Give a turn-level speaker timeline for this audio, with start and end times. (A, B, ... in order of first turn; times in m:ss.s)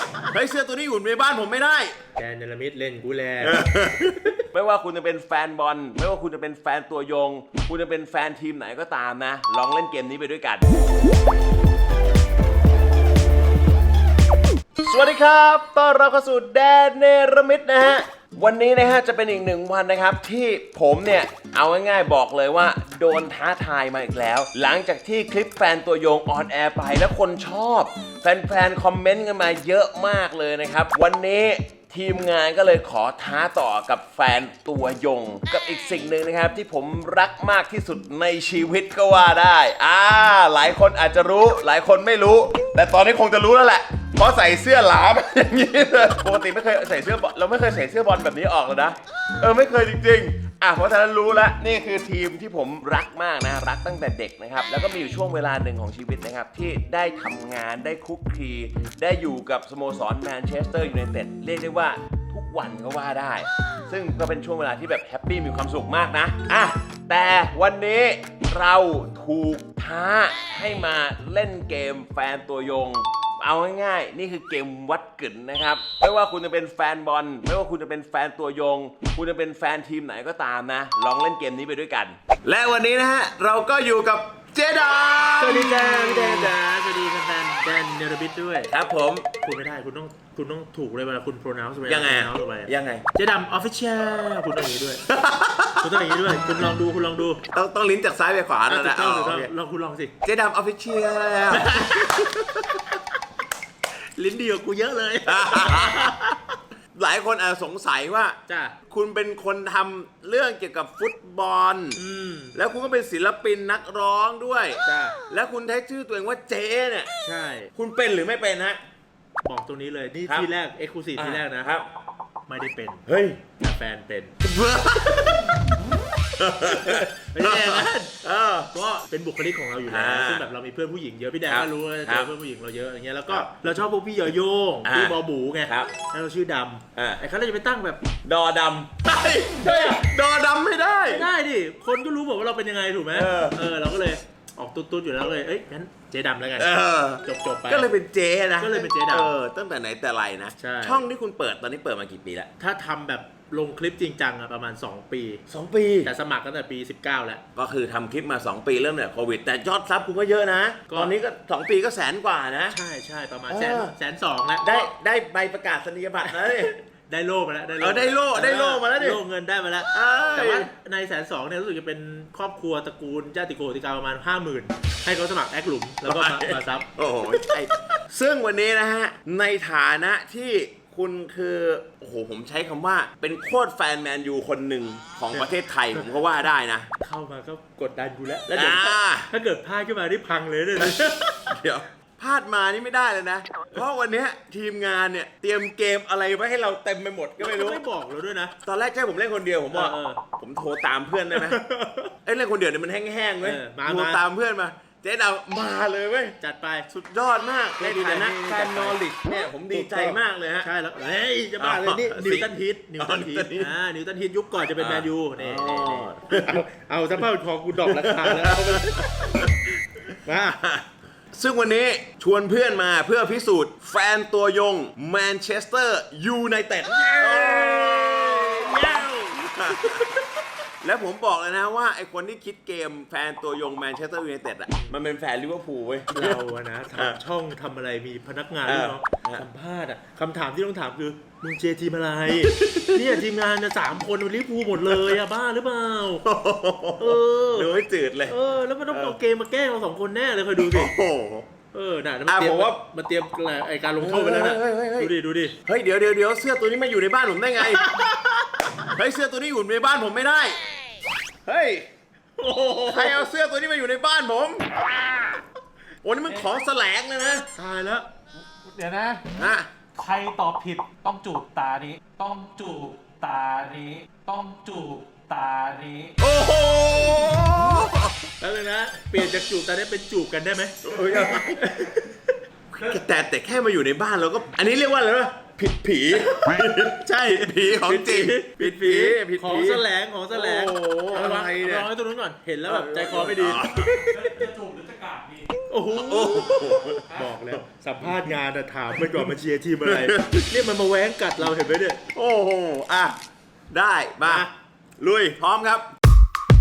0:00.2-0:02.0 A
0:02.2-0:03.6 B
0:03.4-0:10.6 A
0:14.8-1:26.5 A
1:25.4-1:28.7 B
1:28.7-1:29.3 A
1:29.4-1:35.1 B
1:31.8-1:33.0 A
1:35.1-1:36.0 A
1:35.8-1:37.4 B
1:37.5-1:39.5 A
1:38.7-1:40.1 B
1:40.2-1:41.8 A
1:41.5-1:42.4 B
1:44.2-1:46.4 B
1:45.2-1:46.1 A
1:46.9-1:48.4 A
1:48.5-1:48.7 B
1:48.9-1:52.0 A
1:52.0-1:52.5 B
1:52.5-1:57.1 A
1:54.8-1:55.2 B
1:57.2-1:57.7 B
1:57.7-1:58.8 A
1:59.4-2:01.7 B
2:01.2-2:01.8 A
2:02.5-2:03.0 B
2:03.0-2:03.4 A
2:03.6-2:04.3 B
2:04.4-2:05.7 A
2:06.4-2:08.7 A
2:06.6-2:08.1 B
2:08.7-2:18.0 B
2:09.9-2:10.4 A
2:11.5-2:12.3 A
2:13.3-2:13.5 A
2:14.8-2:15.9 A
2:17.0-2:17.2 A
2:18.2-2:21.2 A
2:19.6-2:20.0 B
2:21.1-2:26.7 B
2:23.1-2:23.6 A
2:26.6-2:32.5 A
2:27.2-2:27.9 B
2:28.6-2:29.3 B
2:30.6-2:31.0 B
2:32.6-2:35.4 B
2:35.5-2:36.1 A
2:36.0-2:37.4 B
2:37.5-2:42.8 A
2:42.7-2:44.9 B
2:43.5-2:43.9 A
2:44.6-2:46.8 A
2:46.3-2:56.9 B
2:47.8-2:49.2 A
2:49.9-2:50.7 A
2:56.0-3:06.9 A
3:07.0-3:11.4 B
3:08.5-3:09.3 A
3:11.5-3:17.8 A
3:17.4-3:18.5 B
3:18.6-3:21.6 A
3:19.7-3:20.2 B
3:21.3-3:22.1 B
3:22.2-3:26.4 A
3:23.4-3:24.2 B
3:26.4-3:26.9 B
3:26.9-3:30.7 A
3:27.8-3:29.0 B
3:29.7-3:39.4 B
3:31.6-3:33.7 A
3:34.8-3:36.6 A
3:37.8-3:39.5 A
3:40.1-3:40.6 B
3:40.6-3:50.2 A
3:47.2-3:50.2 B
3:50.8-3:56.4 A
3:56.1-4:06.2 B
3:58.6-3:59.4 A
4:02.4-4:03.0 A
4:04.8-4:05.2 A
4:06.2-4:08.4 A
4:07.0-4:07.7 B
4:08.3-4:10.9 B
4:08.9-4:09.2 A
4:10.6-4:11.5 A
4:11.7-4:15.5 B
4:12.3-4:12.8 A
4:14.0-4:15.1 A
4:15.6-4:17.8 A
4:17.7-4:18.9 B
4:18.9-4:20.6 A
4:21.4-4:21.9 A
4:22.4-4:23.2 B
4:22.8-4:24.6 A
4:26.0-4:27.5 A
4:27.5-4:28.1 B
4:28.5-4:29.2 C
4:29.4-4:29.7 A
4:29.9-4:36.1 C
4:36.2-4:38.2 A
4:38.4-4:42.3 B
4:40.8-4:41.7 A
4:42.7-4:51.9 A
4:46.1-4:46.4 B
4:47.0-4:54.3 B
4:52.6-4:54.0 A
4:53.9-4:55.5 C
4:55.7-5:02.0 B
4:55.9-4:57.6 A
4:57.1-4:57.3 C
4:59.0-4:59.3 A
4:59.8-5:00.5 A
5:02.1-5:03.2 A
5:03.7-5:04.5 A
5:04.2-5:04.5 B
5:05.0-5:05.9 A